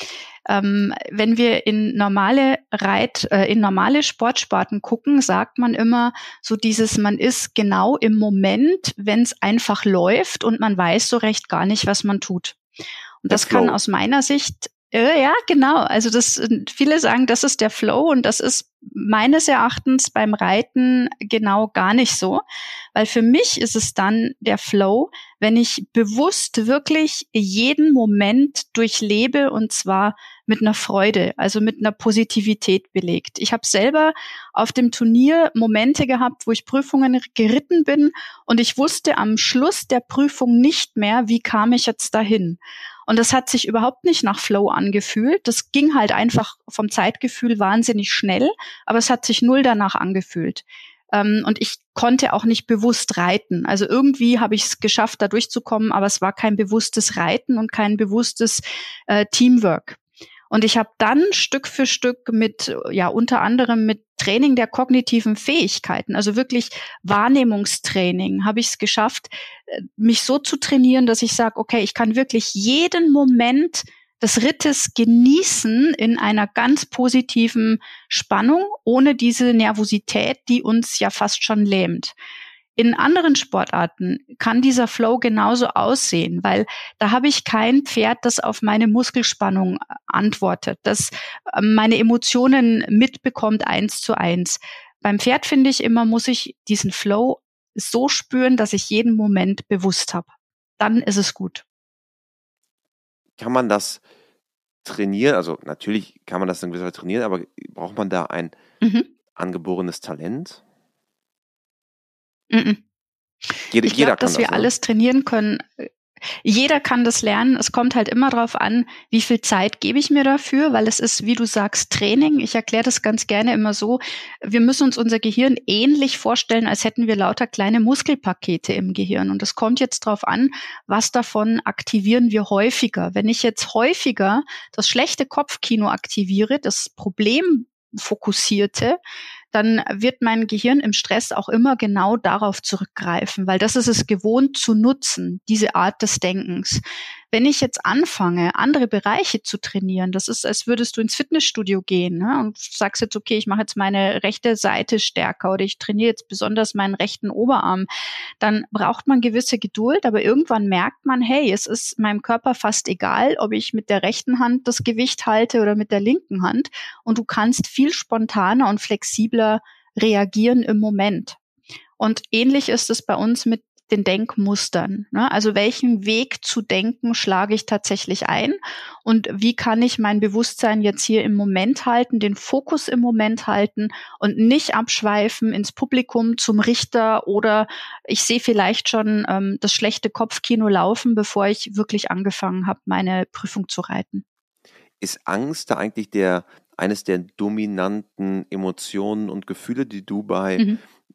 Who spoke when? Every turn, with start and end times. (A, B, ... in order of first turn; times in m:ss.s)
0:00.5-0:12.6 A
0:13.2-0:22.4 A
0:13.3-0:13.8 B
0:22.9-1:00.0 A
1:00.5-1:22.1 A
1:22.8-1:41.6 A
1:43.4-1:44.0 B
1:44.8-1:48.6 B
1:48.8-1:49.1 A
1:49.3-1:50.6 B
1:52.5-1:52.8 A
1:53.7-1:54.7 B
1:53.7-2:19.0 A
2:19.5-2:37.9 A
2:38.4-2:51.4 A
2:52.0-3:14.2 A
3:15.0-3:20.6 B